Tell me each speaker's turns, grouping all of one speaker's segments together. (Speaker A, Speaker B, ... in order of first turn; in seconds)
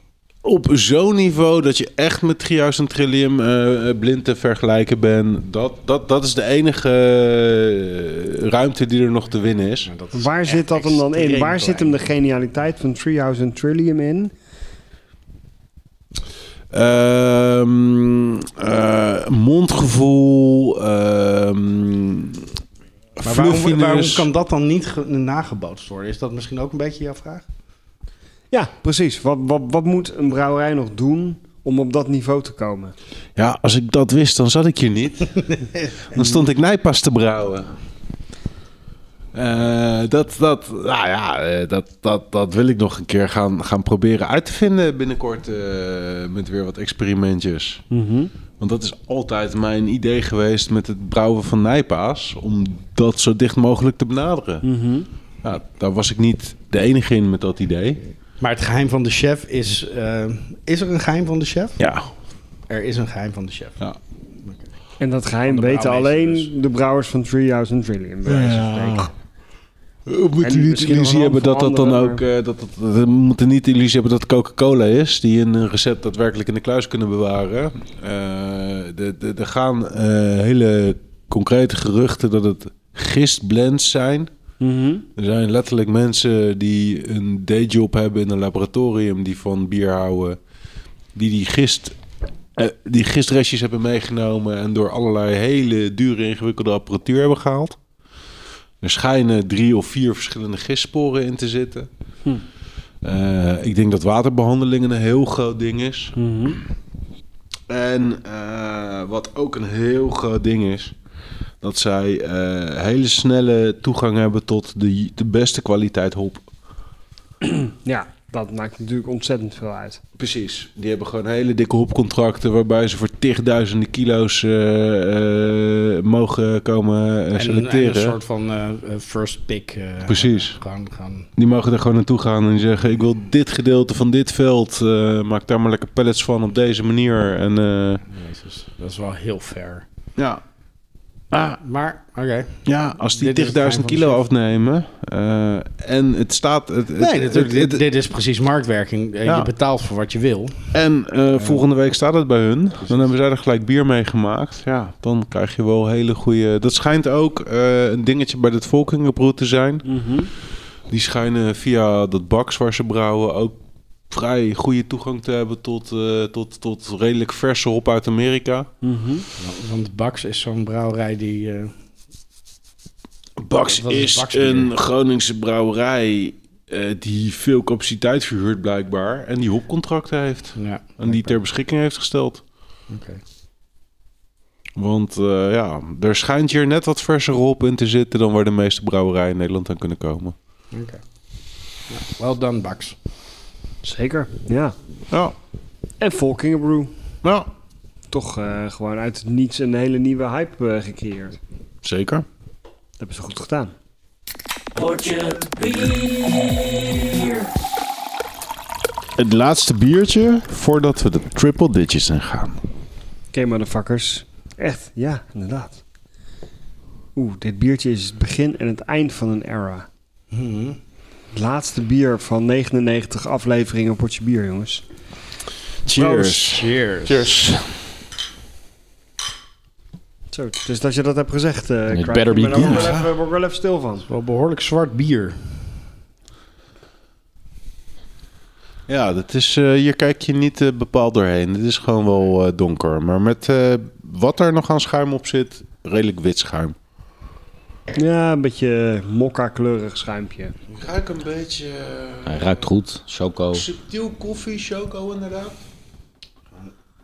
Speaker A: 0.4-9.9, 16.7-22.5, 23.2-24.2, 33.4-35.6, 36.1-37.7, 39.3-47.8, 48.6-54.6, 55.4-58.0, 61.8-62.1, 68.3-69.1, 70.1-84.3, 85.2-90.4, 91.1-92.0, 92.5-97.8, 98.8-101.9, 103.0-106.1, 107.7-110.9, 111.6-116.5, 120.2-128.2, 130.1-130.6, 131.4-138.0, 140.2-140.4, 141.3-141.6, 142.7-147.8, 150.7-159.8, 160.9-163.6, 164.1-168.7, 173.4-182.4, 184.8-190.3, 201.8-202.2, 209.2-212.6, 225.8-227.8, 232.6-233.1, 238.9-246.7, 250.7-252.7, 253.5-255.6
Speaker B: 9.8-12.0, 23.2-27.4, 35.6-35.9, 58.4-61.8, 62.7-63.8, 64.4-64.7, 65.5-66.5, 127.3-131.3, 138.1-139.8, 141.6-144.3, 147.0-150.7, 151.3-151.6, 152.8-153.1, 169.4-171.7, 173.6-174.7, 180.6-181.4, 182.9-183.2, 190.7-191.0, 191.9-192.9, 220.3-220.8, 226.4-227.3, 234.1-235.4
Speaker C: 10.1-14.3, 28.5-32.9, 47.9-48.3, 54.6-55.1, 65.0-69.1, 70.4-72.2, 84.6-85.1, 106.2-106.6, 117.4-120.0, 159.8-160.3, 168.8-169.2, 193.8-194.8, 196.0-196.9, 198.1-201.4, 203.0-203.7, 213.3-215.8, 217.2-219.9, 221.3-224.8, 225.9-226.4, 230.3-234.1, 247.9-250.5
Speaker D: 204.7-207.5, 231.9-232.9, 252.2-253.6